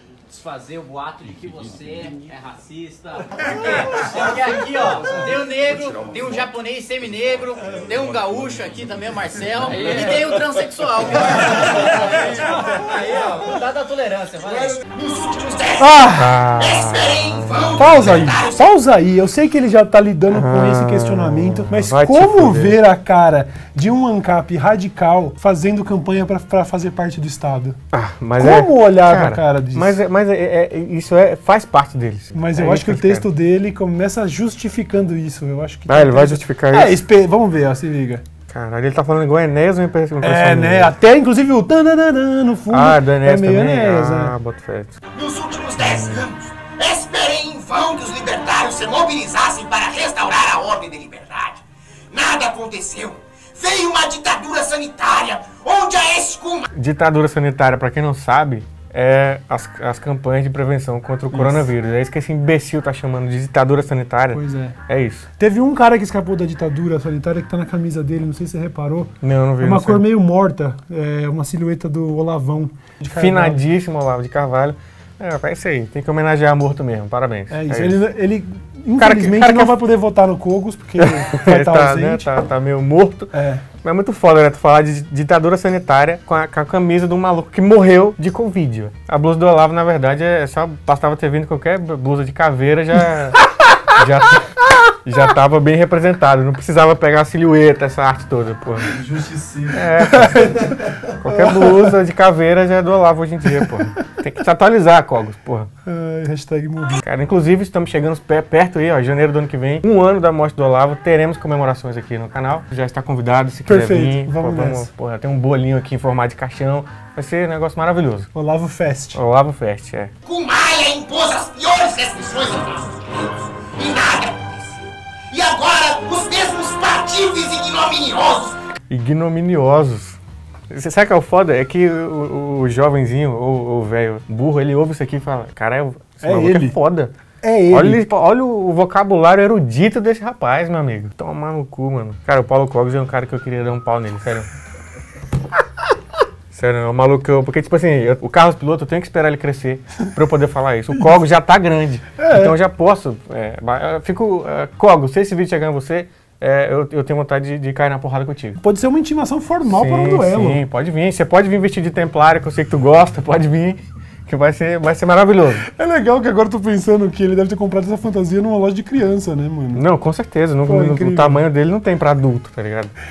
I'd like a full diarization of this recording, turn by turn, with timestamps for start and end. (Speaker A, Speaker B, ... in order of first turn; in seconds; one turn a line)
Speaker A: 0.3-14.8
Speaker B: 14.9-15.9
Speaker C: 15.8-16.4
Speaker D: 16.2-17.8
Speaker B: 16.5-18.6
Speaker C: 17.7-27.8
Speaker D: 20.3-22.8
Speaker D: 27.9-33.3
Speaker C: 28.4-30.0
Speaker C: 32.3-38.2
Speaker D: 35.9-37.0
Speaker D: 38.5-40.9
Speaker C: 40.2-44.3
Speaker D: 42.7-45.0
Speaker B: 45.1-56.7
Speaker D: 45.8-46.3
Speaker D: 56.7-65.3
Speaker C: 61.3-61.7
Speaker C: 64.3-64.8
Speaker C: 65.4-73.6
Speaker D: 69.2-70.0
Speaker D: 73.1-78.0
Speaker C: 77.5-82.3
Speaker D: 79.0-79.8
Speaker D: 81.0-83.3
Speaker C: 83.3-83.6
Speaker D: 83.8-93.4
Speaker D: 94.0-94.5
Speaker D: 95.0-98.9
Speaker E: 98.8-100.8
Speaker D: 99.7-100.6
Speaker C: 100.0-100.5
Speaker D: 101.2-105.7
Speaker C: 101.3-101.8
Speaker C: 105.8-107.0
Speaker D: 107.0-118.3
Speaker C: 113.7-114.9
Speaker C: 118.3-119.2
Speaker D: 119.1-120.1
Speaker B: 120.2-128.5
Speaker D: 128.9-130.2
Speaker D: 130.7-137.1
Speaker C: 136.2-136.8
Speaker C: 137.4-138.0
Speaker D: 137.7-144.5
Speaker D: 146.5-158.6
Speaker C: 152.2-152.5
Speaker C: 158.6-160.6
Speaker D: 159.7-165.7
Speaker C: 165.7-169.8
Speaker D: 169.7-172.9
Speaker C: 170.7-171.4